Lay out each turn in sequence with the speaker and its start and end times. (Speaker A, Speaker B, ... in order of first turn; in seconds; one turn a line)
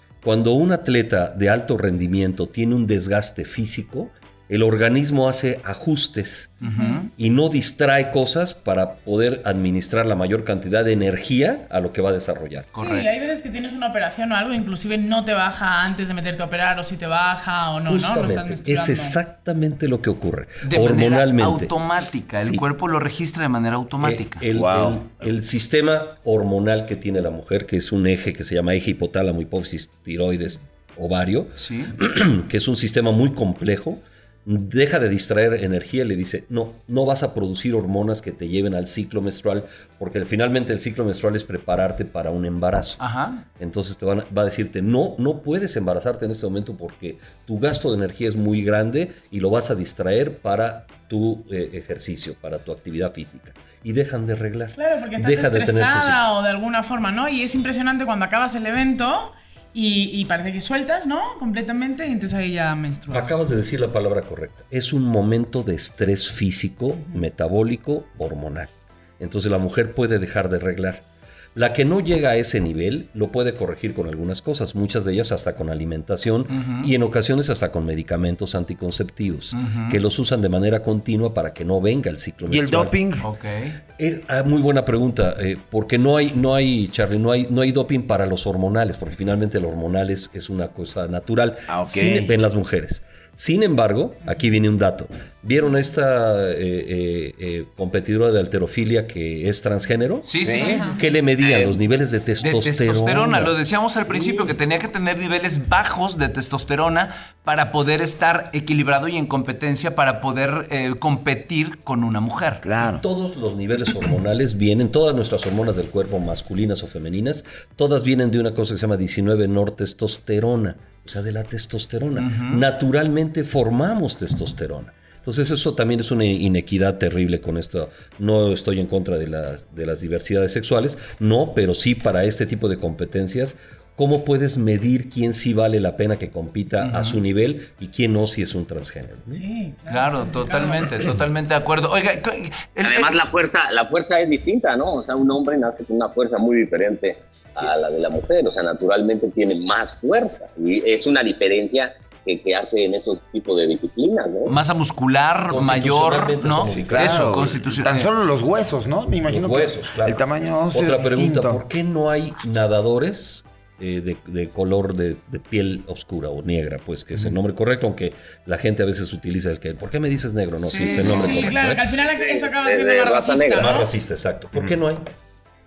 Speaker A: 0.2-6.6
Speaker B: 6.6-7.1
Speaker C: 6.7-7.0
Speaker A: 7.2-12.7
Speaker B: 12.7-13.1
Speaker C: 12.8-19.2
Speaker A: 17.9-21.7
Speaker B: 20.6-24.4
Speaker A: 22.4-22.6
Speaker A: 24.0-43.0
Speaker D: 24.5-25.2
Speaker B: 31.6-31.9
Speaker B: 43.0-43.4
Speaker A: 43.6-56.2
Speaker C: 54.8-63.4
Speaker A: 63.1-71.0
Speaker A: 71.5-82.9
Speaker B: 76.5-76.9
Speaker B: 79.5-80.0
Speaker D: 82.5-83.2
Speaker B: 83.2-83.8
Speaker A: 84.0-103.5
Speaker D: 91.7-92.3
Speaker B: 100.2-101.0
Speaker D: 100.4-100.8
Speaker C: 100.6-101.0
Speaker E: 101.4-101.7
Speaker B: 102.4-112.6
Speaker D: 104.2-104.5
Speaker D: 112.6-113.0
Speaker A: 112.9-139.4
Speaker B: 122.2-122.6
Speaker B: 136.8-137.2
Speaker C: 139.3-140.9
Speaker B: 139.9-143.1
Speaker E: 142.8-154.6
Speaker B: 154.5-158.1
Speaker A: 155.5-157.8
Speaker D: 156.7-161.6
Speaker A: 159.3-171.9
Speaker B: 170.6-171.6
Speaker C: 170.8-173.9
Speaker E: 172.2-173.8
Speaker A: 173.6-175.1